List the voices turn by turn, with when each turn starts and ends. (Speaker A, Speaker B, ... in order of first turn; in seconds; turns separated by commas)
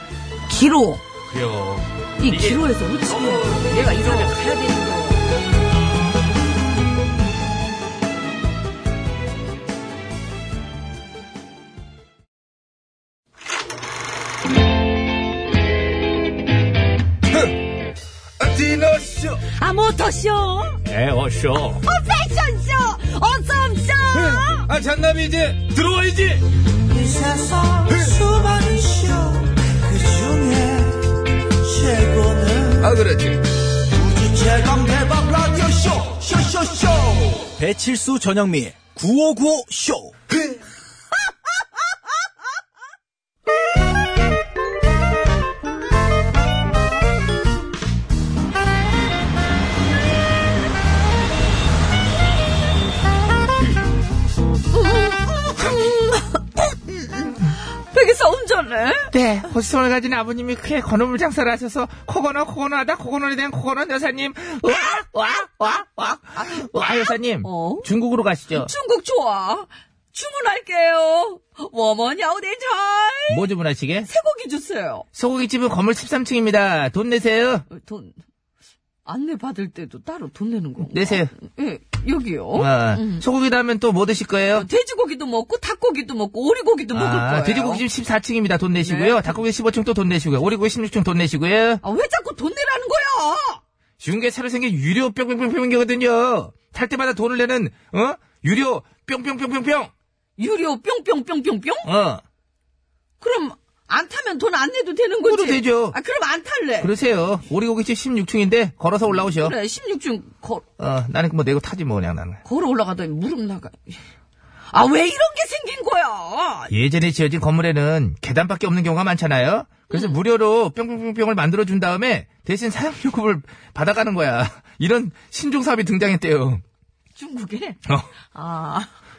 Speaker A: 0.5-1.0, Speaker B: 1.2-4.3, Speaker A: 2.2-5.3, Speaker B: 18.4-19.4, Speaker A: 19.5-20.8, Speaker B: 20.8-21.8, Speaker A: 21.8-24.7, Speaker B: 24.1-26.4, Speaker C: 26.9-32.9, Speaker B: 32.8-33.4, Speaker C: 33.9-37.8, Speaker C: 38.7-40.5, Speaker A: 54.7-56.5, Speaker A: 57.5-59.1, Speaker B: 59.1-68.7, Speaker A: 66.3-67.9, Speaker A: 68.5-73.5, Speaker B: 73.3-74.1, Speaker A: 74.1-75.0, Speaker B: 75.1-77.6, Speaker A: 77.7-78.1, Speaker A: 79.0-83.2, Speaker B: 80.9-81.3, Speaker B: 82.5-84.7, Speaker A: 84.5-87.8, Speaker B: 86.9-91.8, Speaker A: 88.8-89.4, Speaker A: 91.8-93.6, Speaker B: 94.0-99.9, Speaker A: 100.4-101.9, Speaker B: 101.8-102.2, Speaker A: 103.2-106.9, Speaker B: 105.3-106.0, Speaker B: 106.8-109.5, Speaker A: 109.1-110.6, Speaker B: 110.8-112.4, Speaker A: 112.4-114.0, Speaker A: 114.7-116.7, Speaker B: 116.7-126.6, Speaker A: 119.9-120.2, Speaker A: 127.2-127.8, Speaker A: 128.3-128.9